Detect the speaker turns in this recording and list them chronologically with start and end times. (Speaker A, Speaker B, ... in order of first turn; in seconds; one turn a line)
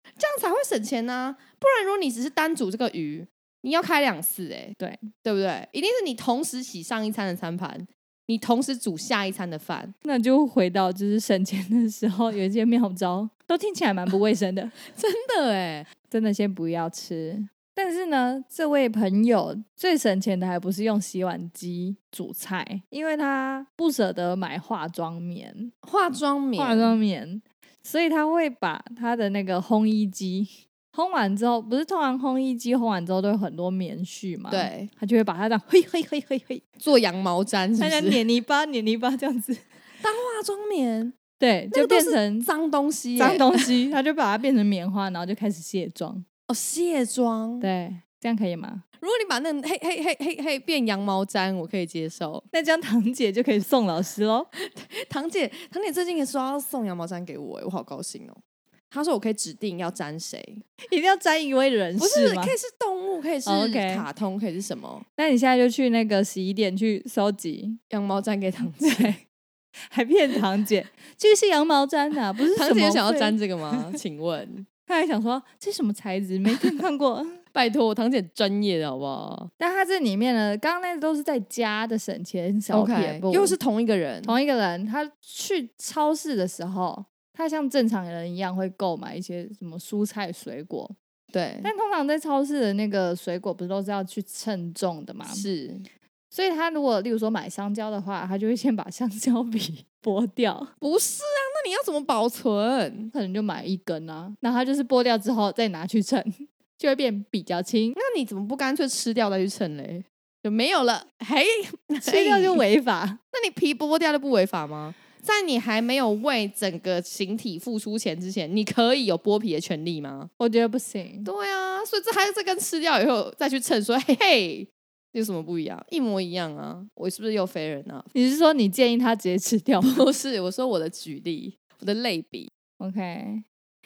Speaker A: 0.2-9.9
Speaker B: 4.8-5.1
Speaker B: 10.1-14.7
Speaker A: 14.9-15.9
Speaker B: 16.1-25.7
Speaker A: 25.8-27.0
Speaker B: 26.6-36.6
Speaker A: 34.5-34.9
Speaker A: 36.8-38.2
Speaker B: 37.8-39.6
Speaker A: 40.0-41.1
Speaker B: 41.4-42.5
Speaker A: 41.7-43.7
Speaker B: 43.2-46.2
Speaker A: 46.5-47.7
Speaker B: 47.6-48.8
Speaker A: 49.0-52.5
Speaker B: 52.5-54.5
Speaker A: 54.5-58.4
Speaker A: 58.9-60.6
Speaker B: 60.9-62.5
Speaker A: 62.0-65.0
Speaker B: 63.5-64.1
Speaker B: 65.2-67.8
Speaker A: 67.9-69.1
Speaker B: 68.8-69.2
Speaker B: 69.9-74.0
Speaker A: 72.5-74.7
Speaker B: 74.9-77.4
Speaker A: 77.5-79.5
Speaker B: 79.6-83.6
Speaker A: 82.7-84.4
Speaker B: 84.2-91.0
Speaker A: 91.3-91.7
Speaker B: 91.6-95.5
Speaker A: 95.2-95.9
Speaker B: 96.3-100.7
Speaker A: 100.8-103.1
Speaker B: 103.1-108.0
Speaker A: 108.0-112.6
Speaker B: 112.0-113.2
Speaker A: 113.3-120.3
Speaker B: 120.4-121.3
Speaker A: 121.2-128.1
Speaker B: 128.1-130.0
Speaker A: 129.8-132.5
Speaker B: 132.8-133.4